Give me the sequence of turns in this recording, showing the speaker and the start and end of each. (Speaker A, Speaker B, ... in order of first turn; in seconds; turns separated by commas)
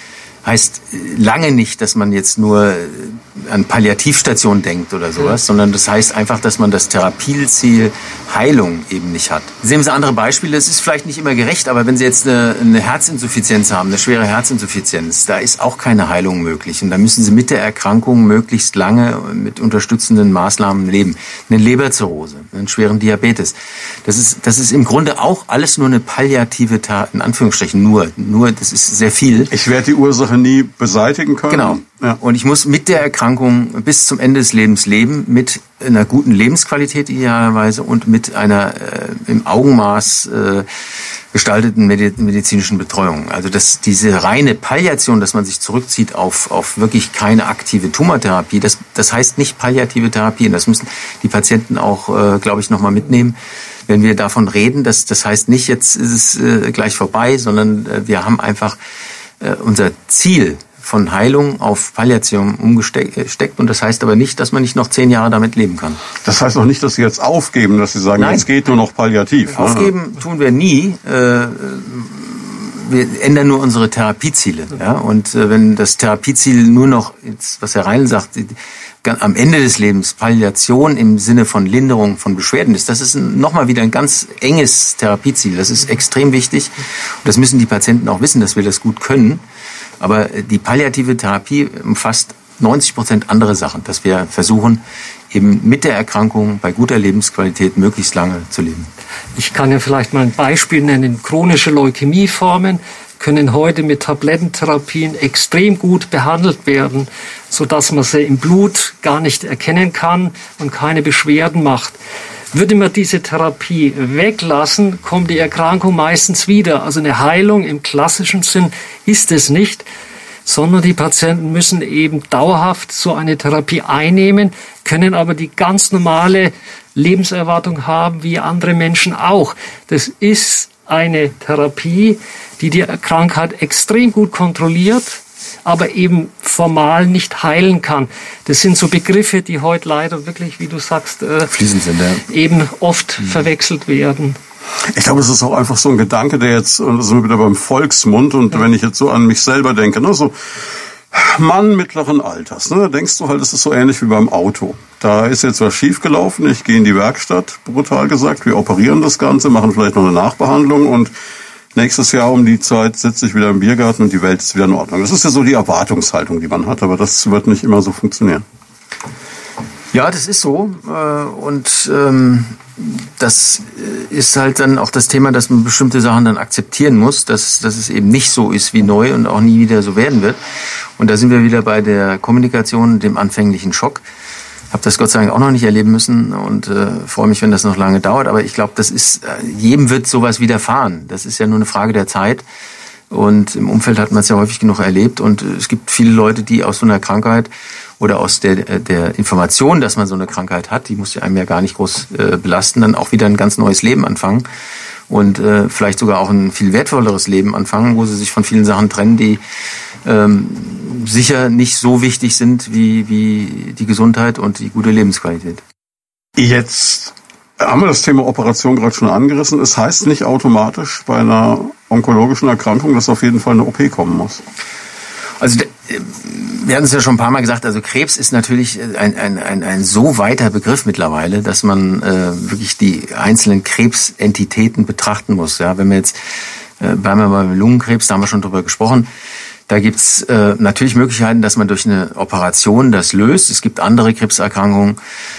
Speaker A: 0.4-29.5, Speaker B: 29.5-32.2, Speaker A: 31.5-40.7, Speaker A: 41.3-53.4, Speaker A: 53.9-58.8, Speaker A: 59.4-66.0, Speaker B: 66.2-69.9, Speaker A: 68.2-68.5, Speaker A: 69.5-89.4, Speaker A: 90.0-98.9, Speaker C: 99.3-112.0, Speaker C: 112.5-119.8, Speaker C: 120.5-141.5, Speaker A: 141.5-142.2, Speaker C: 142.3-144.4, Speaker B: 144.9-161.1, Speaker B: 161.7-168.4, Speaker A: 169.9-180.4, Speaker A: 181.0-184.0, Speaker A: 184.7-192.4, Speaker A: 193.1-204.4, Speaker A: 205.1-209.4, Speaker A: 210.0-215.6, Speaker B: 216.3-224.4, Speaker A: 225.4-236.2, Speaker A: 236.8-239.1, Speaker A: 239.7-245.0